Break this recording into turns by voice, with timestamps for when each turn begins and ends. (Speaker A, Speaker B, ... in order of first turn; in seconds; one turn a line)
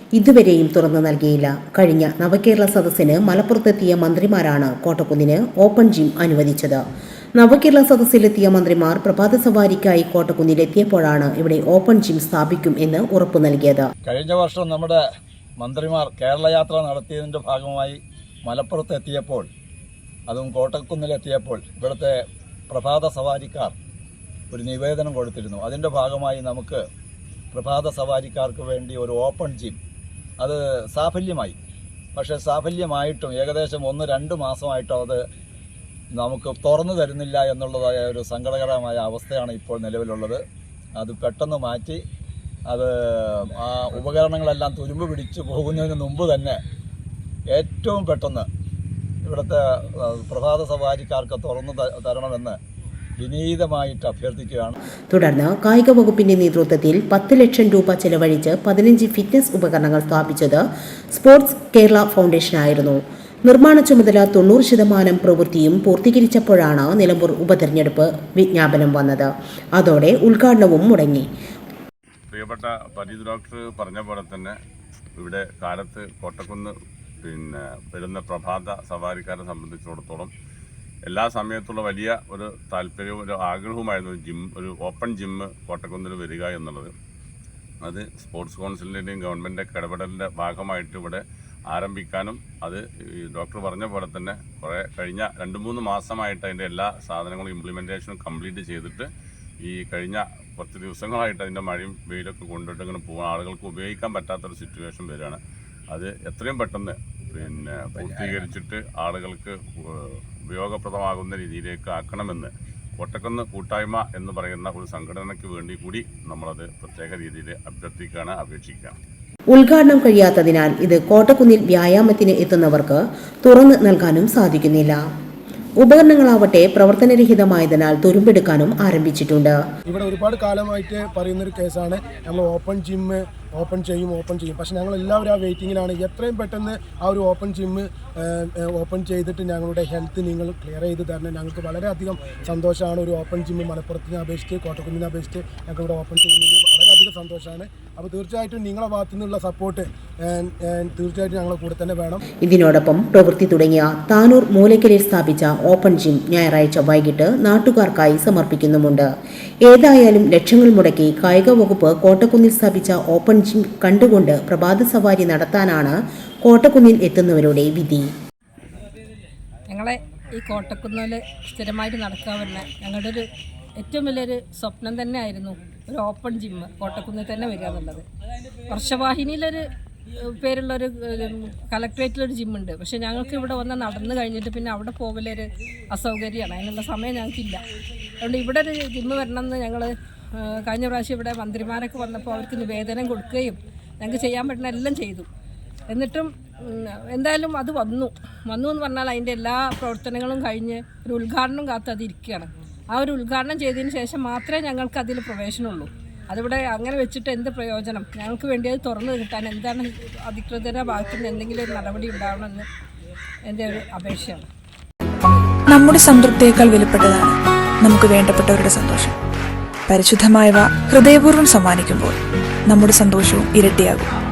Speaker A: 0.1-6.8
Speaker A: 7.3-13.9
Speaker B: 14.0-15.0
Speaker B: 15.6-19.5
Speaker B: 20.3-22.2
Speaker B: 22.7-23.7
Speaker B: 24.5-26.8
Speaker B: 27.5-29.8
Speaker B: 30.4-31.6
Speaker B: 32.1-35.2
Speaker B: 36.1-40.4
Speaker B: 41.0-42.0
Speaker B: 42.7-46.6
Speaker B: 47.5-48.5
Speaker B: 49.2-52.6
Speaker B: 53.2-54.7
Speaker A: 55.1-71.3
Speaker C: 72.3-74.5
Speaker C: 75.2-76.7
Speaker C: 77.2-80.3
Speaker C: 81.1-86.9
Speaker C: 87.8-99.1
Speaker C: 99.6-105.4
Speaker C: 105.9-119.0
Speaker A: 119.5-125.0
Speaker A: 125.8-129.6
Speaker D: 129.9-152.2
Speaker A: 152.4-159.1
Speaker A: 159.6-168.1
Speaker E: 169.7-173.2
Speaker E: 173.8-178.0
Speaker E: 178.7-179.6
Speaker E: 180.2-187.6
Speaker E: 188.2-195.3
Speaker E: 195.9-212.7
Speaker E: 213.5-214.5
Speaker F: 215.7-219.1
Speaker F: 219.9-224.1